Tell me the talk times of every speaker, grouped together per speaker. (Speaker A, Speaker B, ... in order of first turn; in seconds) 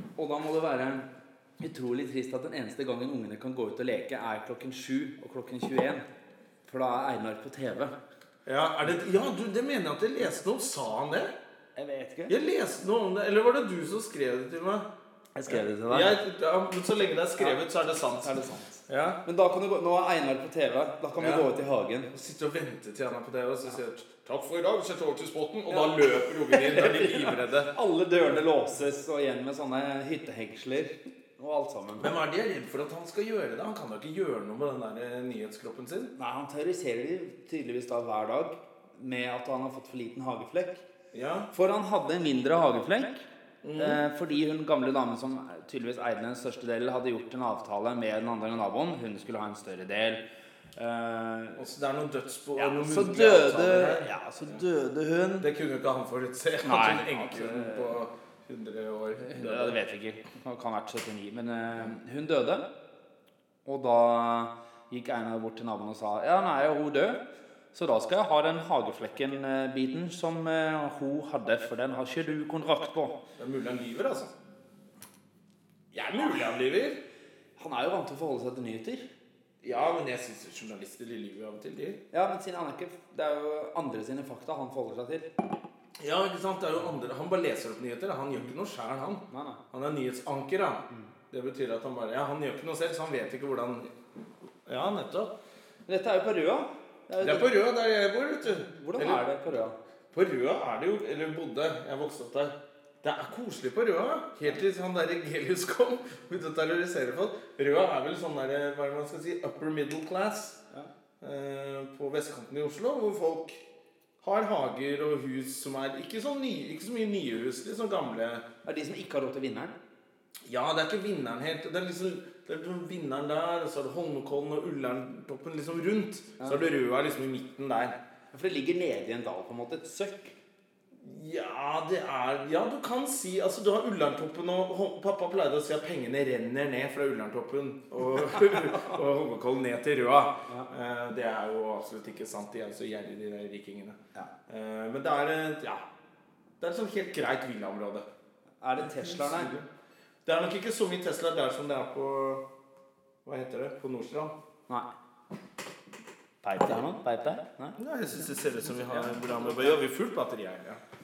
Speaker A: 0.2-1.1, 1.6-6.0, 6.7-7.9, 11.8-12.3, 15.3-16.2, 18.1-22.1, 25.7-32.1, 36.2-40.8, 41.5-50.2, 50.8-51.6, 52.6-55.5, 56.6-57.9, 59.2-62.7, 63.6-67.2, 67.7-73.2, 77.6-79.0, 82.1-85.3, 89.3-89.6, 95.9-97.5, 98.7-99.8, 118.7-119.8, 128.3-130.3, 148.6-149.5, 156.4-157.8, 158.9-159.8
Speaker B: 8.5-11.3, 12.3-14.9, 15.5-18.3, 18.9-19.2, 21.2-21.5, 22.1-27.7, 32.0-36.1, 41.1-41.5, 43.6-44.0, 51.6-54.1, 55.4-59.8, 73.4-74.3, 75.9-77.0, 79.6-82.0, 86.0-93.9, 94.7-95.3, 97.2-99.3, 100.1-110.6, 111.2-113.6, 114.2-118.5, 120.5-128.0, 130.9-145.8, 146.6-148.1, 148.9-149.7, 150.2-152.4, 153.2-154.3, 157.8-160.8